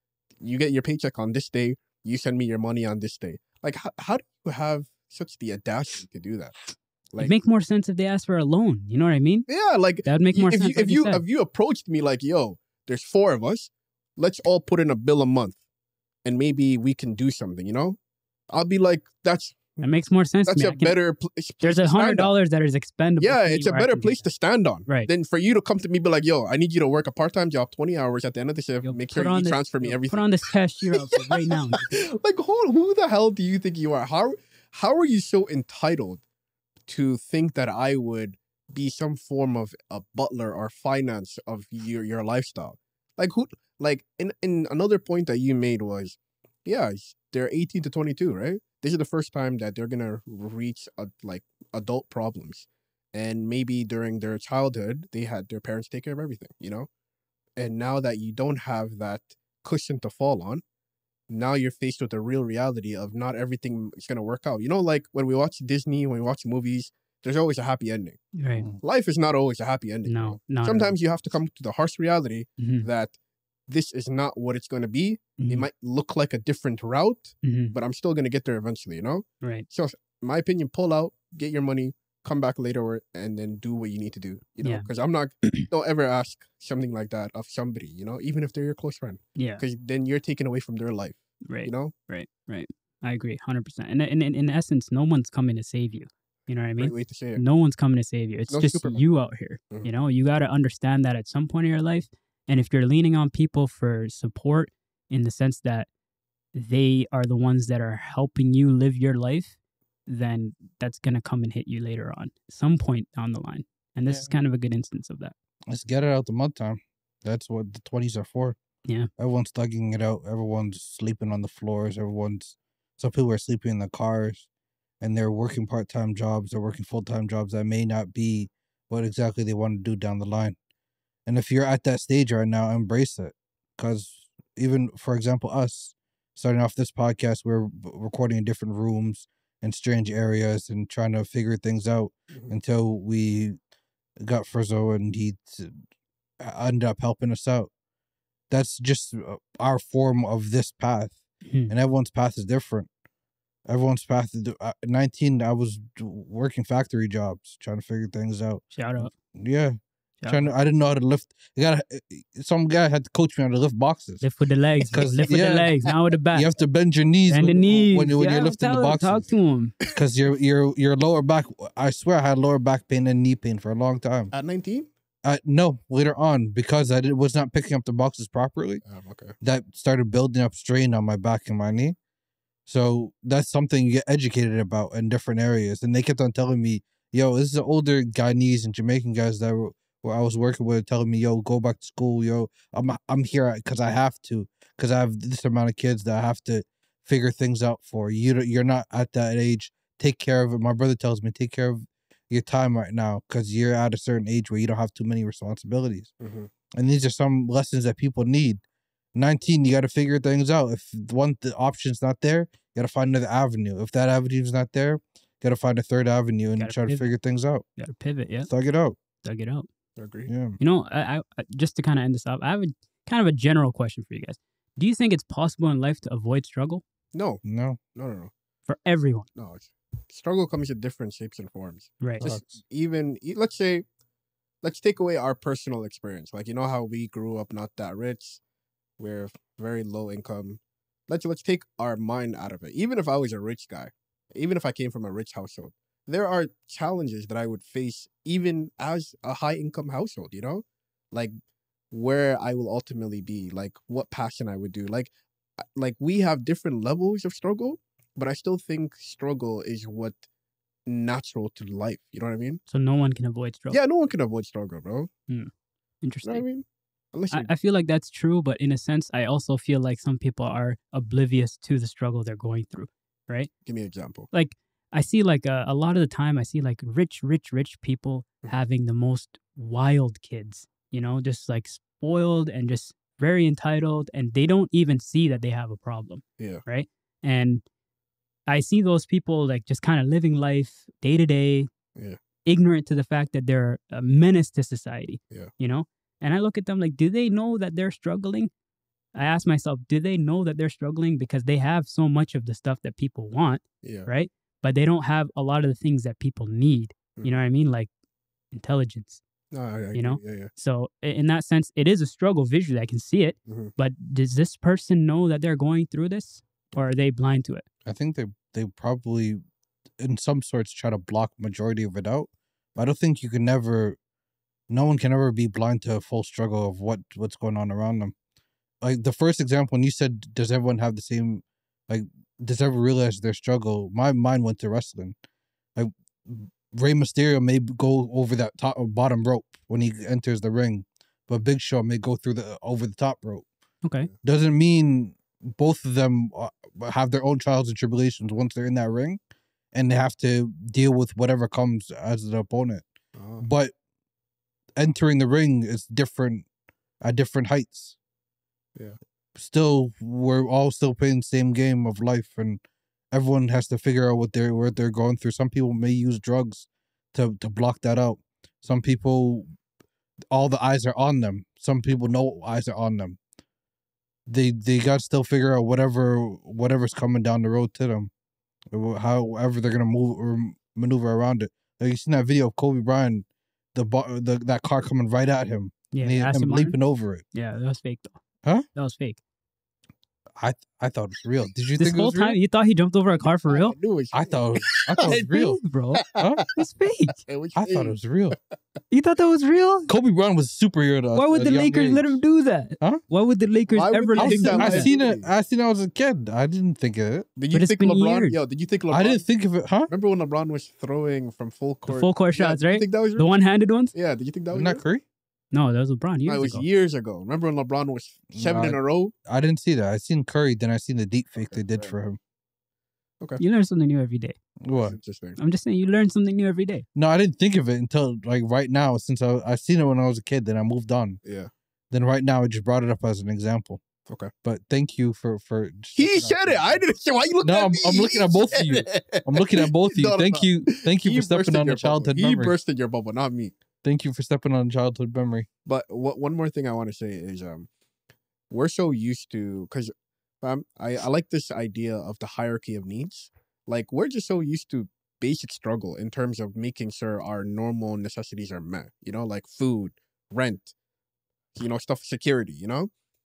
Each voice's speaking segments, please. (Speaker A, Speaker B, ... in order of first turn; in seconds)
Speaker A: 0.4-7.3, 9.5-15.6, 16.2-18.0, 18.5-19.8, 20.5-22.3, 23.2-30.3, 30.9-36.2, 36.9-56.9, 57.6-60.6, 61.3-68.2, 68.8-73.2, 73.7-91.9, 96.8-97.4, 98.5-99.0, 174.3-174.9, 178.8-179.4, 206.2-206.5, 220.0-220.3, 227.1-227.4, 227.9-228.3, 229.4-233.8, 234.6-238.4, 239.0-251.3, 251.9-260.2, 260.9-262.6, 263.7-265.1, 266.2-267.5, 273.6-274.3, 303.8-304.1, 309.5-310.5, 313.5-313.7, 353.1-353.5, 393.5-395.2, 396.0-396.5, 397.2-398.5, 403.7-405.3, 407.4-409.2, 409.9-413.3, 413.9-414.8, 416.2-419.1, 421.4-421.9, 424.8-425.4, 431.2-431.5, 435.9-443.5, 445.6-447.7, 448.5-460.7, 461.6-462.9
Speaker B: 7.2-9.5, 10.0-11.2, 19.8-21.0, 21.6-24.2, 28.8-31.9, 68.4-68.7, 70.0-70.9, 72.6-72.9, 75.4-75.7, 77.4-77.8, 84.6-84.9, 89.4-89.6, 91.5-105.9, 106.5-115.3, 151.4-151.7, 158.7-159.1, 160.2-160.5, 164.2-166.5, 167.3-169.8, 216.6-217.1, 217.8-218.5, 219.2-219.7, 220.6-226.8, 228.7-229.3, 232.0-232.3, 262.7-263.8, 266.0-266.4, 267.3-273.5, 274.3-287.6, 288.5-291.7, 292.4-298.5, 299.1-307.9, 308.5-309.2, 309.9-317.6, 343.8-344.1, 385.9-386.8, 387.3-388.2, 388.7-389.2, 391.8-393.7, 395.1-397.2, 398.9-399.9, 401.1-404.9, 407.5-408.4, 411.9-413.9, 415.5-416.6, 423.4-424.4, 425.4-426.9
Speaker C: 114.0-114.3, 115.7-118.6, 119.2-124.5, 125.0-130.6, 131.2-143.6, 144.2-145.8, 146.4-147.7, 148.5-152.9, 153.7-164.2, 164.9-165.7, 166.3-169.3, 169.9-174.3, 175.2-178.8, 179.4-182.0, 182.7-206.1, 206.7-208.6, 209.1-217.7, 218.4-219.0, 220.2-220.6, 227.4-227.8, 232.2-232.6, 317.9-319.4, 320.0-324.0, 324.7-328.1, 328.8-335.2, 335.8-343.4, 344.2-349.2, 349.7-352.9, 353.4-353.7, 354.8-356.4, 357.0-357.9, 359.4-369.5, 370.3-373.2, 374.3-378.1, 378.7-387.2, 390.4-392.4, 394.1-395.6, 396.2-396.4, 397.6-398.4, 399.9-402.2, 404.2-407.3, 408.9-409.9, 414.5-415.0, 418.3-422.2, 424.6-425.0, 426.9-431.2, 431.9-433.8, 434.4-436.8, 437.4-442.6, 443.8-445.5